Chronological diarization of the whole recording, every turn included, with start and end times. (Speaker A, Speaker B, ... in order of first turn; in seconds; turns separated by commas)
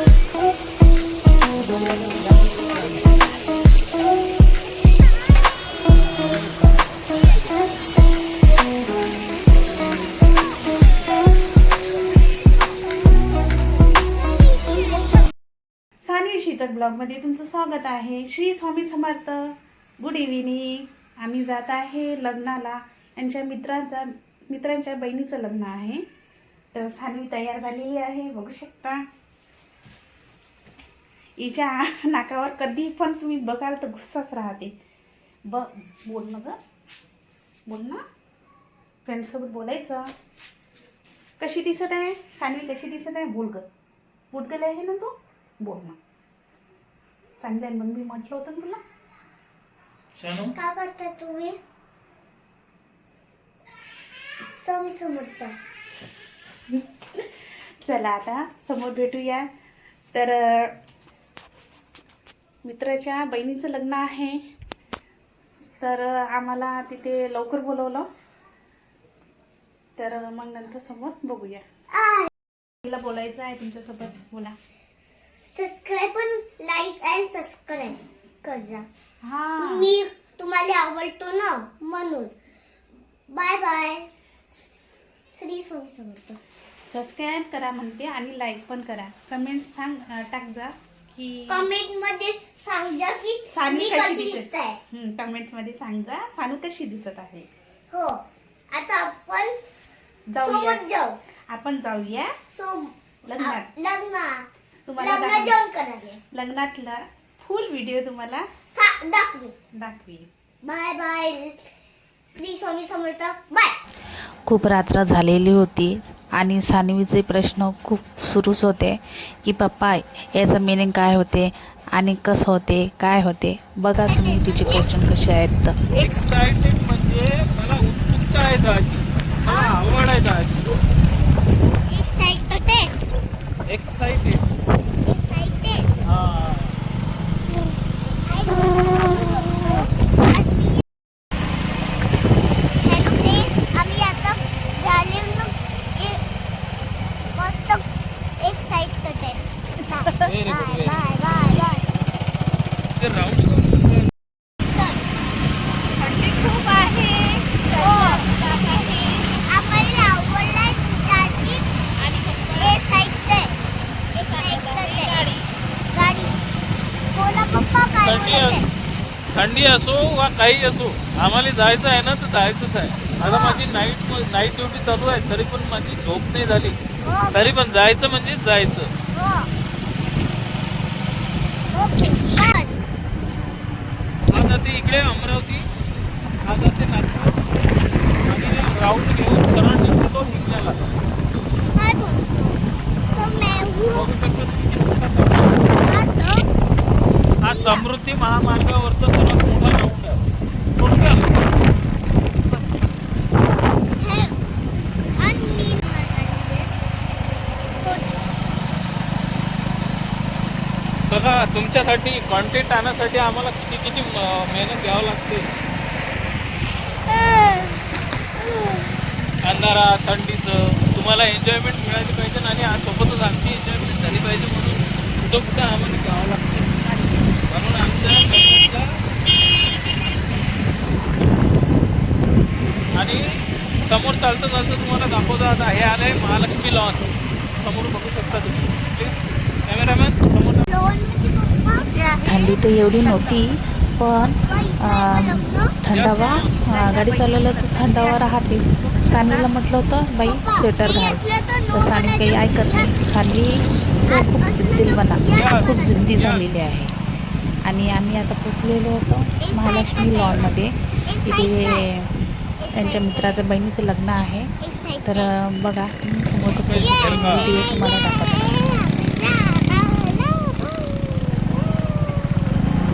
Speaker A: 7.1-7.6, Speaker B: 16.0-26.0, Speaker B: 26.7-29.0, Speaker B: 31.4-34.7, Speaker B: 35.5-36.6, Speaker B: 37.7-38.0, Speaker B: 39.0-40.1, Speaker B: 41.4-43.6, Speaker B: 44.3-46.0, Speaker B: 47.4-48.8, Speaker A: 50.2-50.5, Speaker C: 50.5-51.6, Speaker C: 54.6-55.5, Speaker B: 56.7-57.3, Speaker B: 57.8-59.5, Speaker B: 60.1-60.7, Speaker B: 62.6-64.4, Speaker B: 65.8-68.1, Speaker B: 70.0-71.6, Speaker C: 71.9-72.3, Speaker B: 72.8-74.5, Speaker C: 75.4-78.9, Speaker B: 79.2-79.9, Speaker C: 79.6-82.3, Speaker C: 83.3-84.1, Speaker C: 85.3-86.4, Speaker B: 86.9-91.7, Speaker C: 91.5-94.8, Speaker B: 93.5-97.5, Speaker C: 97.9-99.6, Speaker B: 100.3-100.8, Speaker C: 100.4-101.2, Speaker B: 101.5-102.3, Speaker C: 102.5-106.2, Speaker B: 103.2-103.7, Speaker B: 104.9-105.6, Speaker B: 106.3-108.5, Speaker C: 108.7-109.5, Speaker B: 109.7-110.3, Speaker C: 110.6-111.6, Speaker C: 112.3-113.8, Speaker D: 114.5-125.8, Speaker C: 124.0-124.9, Speaker B: 125.9-126.4, Speaker A: 126.0-130.6, Speaker C: 129.5-129.8, Speaker C: 131.9-132.9, Speaker A: 133.7-134.5, Speaker C: 135.1-135.9, Speaker A: 136.1-136.7, Speaker C: 138.2-140.8, Speaker C: 142.8-146.2, Speaker C: 147.3-147.8, Speaker C: 148.4-151.8, Speaker A: 150.2-151.0, Speaker A: 153.0-154.1, Speaker B: 156.0-159.2, Speaker C: 157.7-158.3, Speaker C: 159.3-161.7, Speaker B: 162.0-162.8, Speaker C: 162.6-163.6, Speaker C: 164.2-165.3, Speaker B: 164.2-165.4, Speaker C: 165.9-166.4, Speaker C: 167.1-168.7, Speaker A: 168.0-168.6, Speaker A: 169.3-176.8, Speaker C: 173.2-173.6, Speaker C: 177.0-177.5, Speaker A: 177.3-178.9, Speaker C: 179.1-179.5, Speaker C: 181.7-182.8, Speaker A: 184.3-185.7, Speaker A: 186.4-187.4, Speaker A: 188.2-190.8, Speaker C: 191.8-192.6, Speaker C: 193.2-194.1, Speaker A: 193.9-195.7, Speaker C: 195.8-196.5, Speaker A: 197.4-200.2, Speaker C: 197.4-197.9, Speaker A: 200.8-201.3, Speaker B: 202.5-203.2, Speaker C: 203.9-204.4, Speaker C: 205.2-206.7, Speaker C: 207.8-208.1, Speaker A: 211.1-215.5, Speaker C: 217.1-217.8, Speaker C: 218.4-218.9, Speaker A: 219.4-226.7, Speaker B: 226.8-227.2, Speaker A: 227.5-228.9, Speaker A: 232.9-233.2, Speaker A: 233.8-240.7, Speaker C: 240.7-241.9, Speaker B: 241.8-243.4, Speaker D: 242.2-256.9, Speaker C: 244.5-245.8, Speaker A: 245.9-246.6, Speaker B: 246.6-249.5, Speaker C: 250.2-253.0, Speaker C: 253.9-256.1, Speaker A: 255.3-256.4, Speaker D: 257.6-262.1, Speaker C: 259.4-261.9, Speaker C: 262.6-263.4, Speaker D: 262.7-264.5, Speaker C: 264.6-265.4, Speaker D: 265.1-268.6, Speaker A: 266.5-267.5, Speaker C: 266.7-271.0